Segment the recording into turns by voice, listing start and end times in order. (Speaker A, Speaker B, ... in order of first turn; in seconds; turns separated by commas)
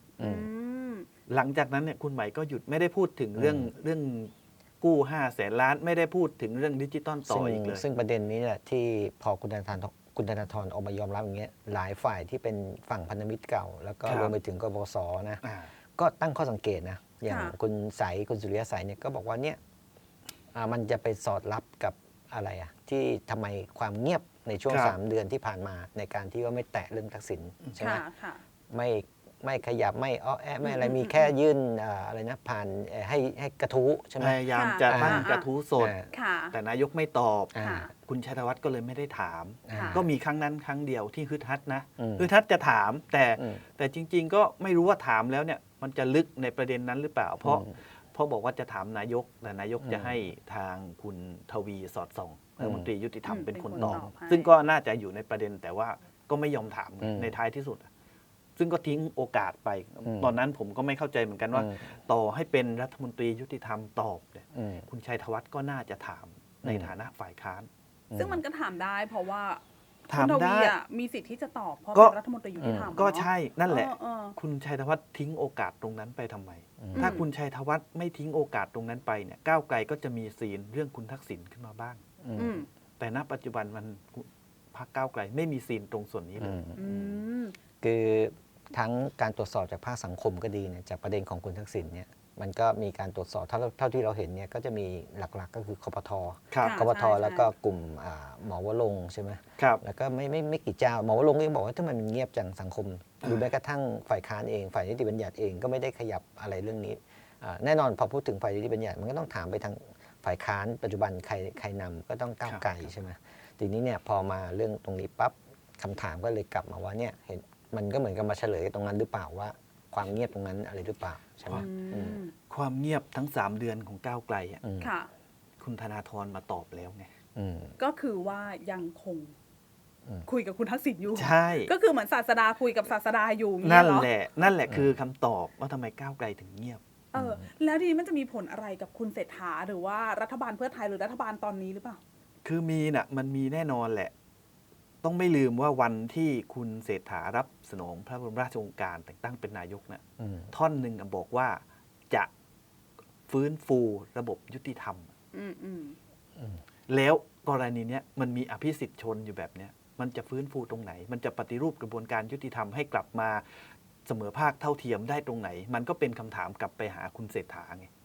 Speaker A: 0.2-0.5, Speaker B: 0.2-1.1, Speaker C: 1.3-7.8, Speaker A: 3.4-3.7, Speaker A: 7.3-15.4, Speaker C: 14.1-14.4, Speaker C: 15.4-15.7, Speaker A: 16.0-19.6, Speaker B: 17.3-17.6, Speaker A: 20.5-28.0, Speaker C: 24.7-25.0, Speaker B: 27.8-28.4, Speaker A: 28.7-35.3, Speaker B: 30.6-31.3, Speaker C: 34.2-36.0, Speaker B: 34.5-35.5, Speaker A: 35.8-36.1, Speaker B: 36.1-36.6, Speaker C: 36.5-57.9, Speaker A: 37.5-37.9, Speaker B: 37.6-37.9, Speaker A: 39.7-40.1, Speaker B: 39.7-40.0, Speaker A: 42.0-42.3, Speaker A: 43.4-43.6, Speaker A: 47.4-47.7, Speaker A: 49.8-50.1, Speaker A: 52.6-52.9, Speaker B: 53.3-54.5, Speaker A: 53.8-54.1, Speaker A: 57.0-57.3, Speaker C: 58.6-67.7, Speaker A: 60.0-60.4, Speaker A: 61.5-61.8, Speaker A: 64.5-64.9, Speaker A: 66.6-66.9, Speaker A: 68.1-68.4, Speaker B: 68.2-74.4, Speaker C: 70.1-70.8, Speaker A: 72.6-73.0, Speaker C: 72.9-82.0, Speaker A: 76.8-77.2, Speaker B: 76.9-77.2, Speaker A: 82.2-82.7, Speaker B: 82.4-82.7, Speaker C: 83.0-86.6, Speaker A: 86.4-87.2, Speaker B: 86.8-87.6, Speaker A: 87.8-122.2, Speaker C: 96.5-96.8, Speaker B: 96.6-97.5, Speaker C: 112.5-112.9, Speaker B: 121.5-122.3, Speaker C: 122.5-124.6, Speaker A: 124.6-124.9, Speaker B: 124.8-125.1, Speaker C: 125.6-127.1, Speaker A: 127.3-127.8, Speaker B: 127.8-129.3, Speaker B: 130.3-134.1, Speaker C: 131.2-131.7, Speaker C: 133.6-136.8, Speaker A: 134.7-134.9, Speaker B: 137.1-142.0, Speaker A: 137.2-137.5, Speaker C: 142.4-144.1, Speaker C: 145.0-152.3, Speaker A: 150.2-150.5, Speaker C: 153.3-155.1, Speaker B: 155.3-156.0, Speaker C: 156.9-163.4, Speaker C: 164.1-167.9